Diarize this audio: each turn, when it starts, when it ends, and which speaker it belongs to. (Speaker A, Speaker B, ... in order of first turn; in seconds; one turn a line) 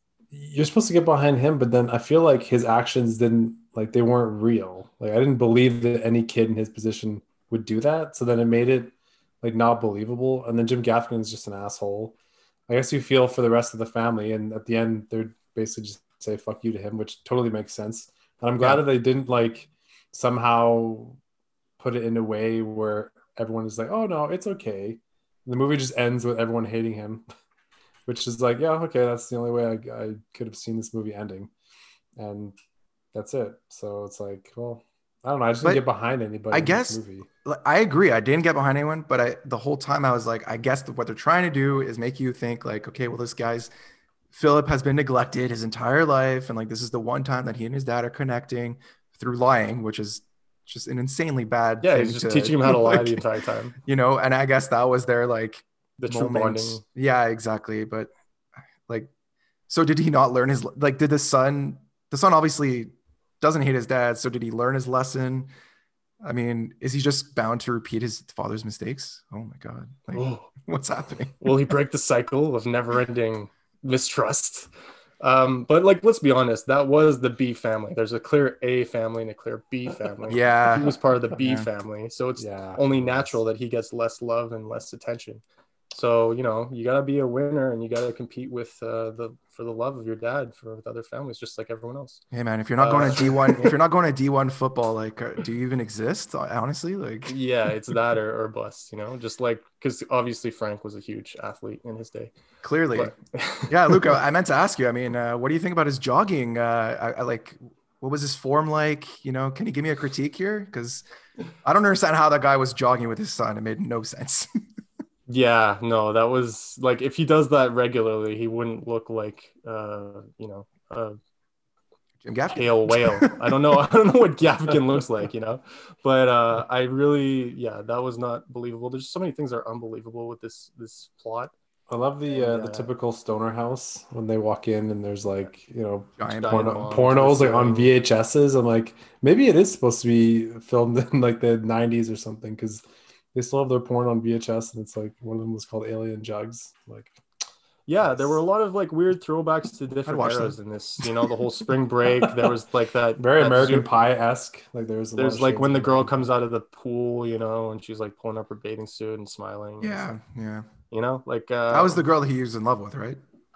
Speaker A: 0.3-12.1
Speaker A: 12.7-21.2
Speaker B: 18.6-18.9
Speaker A: 21.8-27.2
Speaker A: 28.1-31.5
Speaker A: 32.2-32.5
Speaker A: 33.1-37.3
Speaker B: 36.5-43.7
Speaker B: 44.3-53.2
Speaker C: 51.8-53.7
Speaker B: 53.8-58.1
Speaker C: 56.0-56.8
Speaker B: 59.7-65.5
Speaker B: 66.2-71.5
Speaker C: 70.1-70.5
Speaker C: 71.4-74.7
Speaker C: 75.2-92.2
Speaker B: 80.3-81.7
Speaker A: 82.4-83.3
Speaker B: 92.3-97.3
Speaker C: 92.8-93.7
Speaker C: 97.3-102.3
Speaker B: 102.6-103.1
Speaker C: 102.9-104.1
Speaker B: 103.7-111.0
Speaker B: 111.6-114.5
Speaker C: 115.3-121.2
Speaker B: 122.2-123.4
Speaker C: 122.5-131.5
Speaker A: 131.9-147.2
Speaker C: 132.3-132.9
Speaker B: 136.2-136.8
Speaker C: 136.3-137.9
Speaker C: 147.9-153.9
Speaker B: 150.1-150.6
Speaker A: 153.2-156.3
Speaker C: 155.2-160.1
Speaker B: 159.8-160.7
Speaker C: 160.9-162.0
Speaker B: 161.7-163.2